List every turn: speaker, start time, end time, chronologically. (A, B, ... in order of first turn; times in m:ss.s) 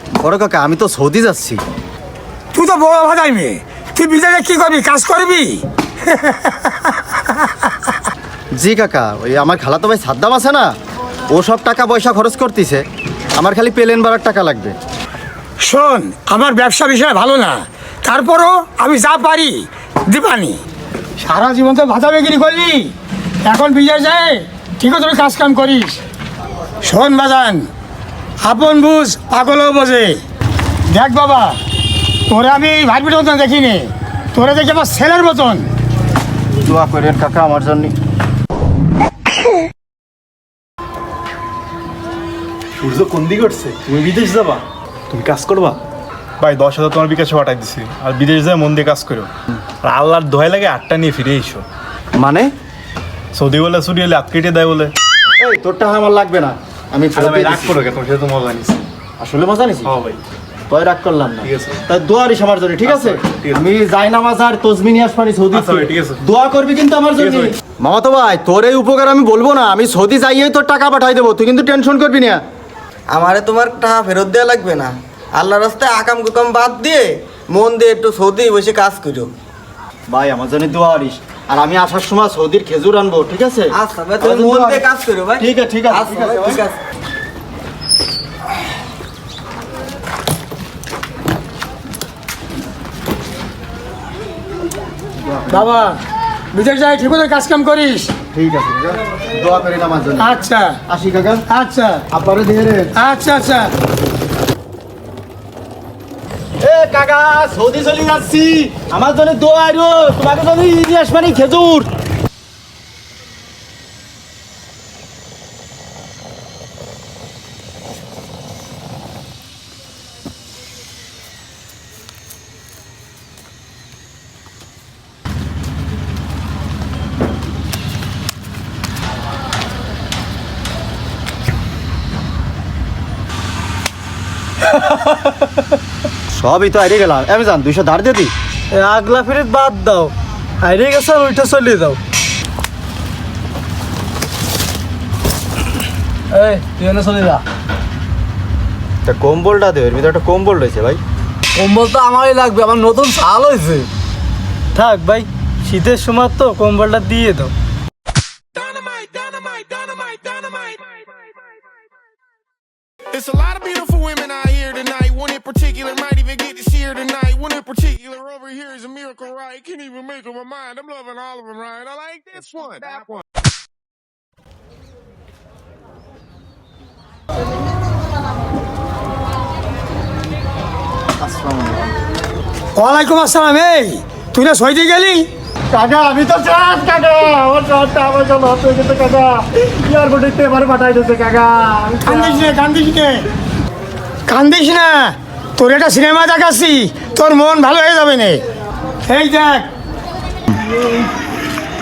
0:00.2-0:01.6 A
0:02.5-0:06.9 B
0:08.6-0:10.7 A
0:11.3-0:12.8 A
0:13.4-0:14.8 A
0:15.6-0:20.6 B
0:21.2-0:22.9 B
0:23.4-0:26.0 B
0:26.8-0:27.7 B
0:28.4-0:30.2 B
0:30.9-0:31.6 B
0:32.3-0:35.7 B
0:36.6-0:37.9 A
0:42.8-0:45.8 C
0:46.4-0:49.3 C
0:49.8-0:51.6 C
0:52.2-0:52.5 A
0:53.3-0:54.9 C
0:55.4-0:57.8 A
0:57.2-0:58.8 C
0:59.2-0:59.9 A
0:59.9-1:00.2 C
1:00.7-1:12.4 A
1:01.4-1:01.8 C
1:02.8-1:03.6 C
1:05.5-1:06.2 C
1:07.2-1:07.5 C
1:13.1-1:19.3 D
1:20.1-1:24.8 A
1:23.7-1:26.8 D
1:25.4-1:26.6 A
1:35.3-1:35.7 A
1:35.5-1:36.0 B
1:36.5-1:38.1 B
1:38.3-1:40.4 A
1:40.2-1:40.8 B
1:40.9-1:41.4 A
1:41.5-1:42.0 B
1:42.1-1:42.9 A
1:43.0-1:43.7 B
1:46.6-1:51.9 A
2:14.7-2:15.4 E
2:16.3-2:18.3 A
2:18.7-2:22.0 E
2:26.3-2:27.4 E
2:29.0-2:31.0 A
2:31.5-2:33.9 E
2:34.7-2:37.5 E
2:38.5-2:41.1 F
2:43.1-2:53.2 F
3:01.2-3:01.9 A
3:02.8-3:05.3 B
3:05.7-3:12.5 A
3:12.0-3:13.3 B
3:14.3-3:18.4 B
3:19.0-3:19.7 B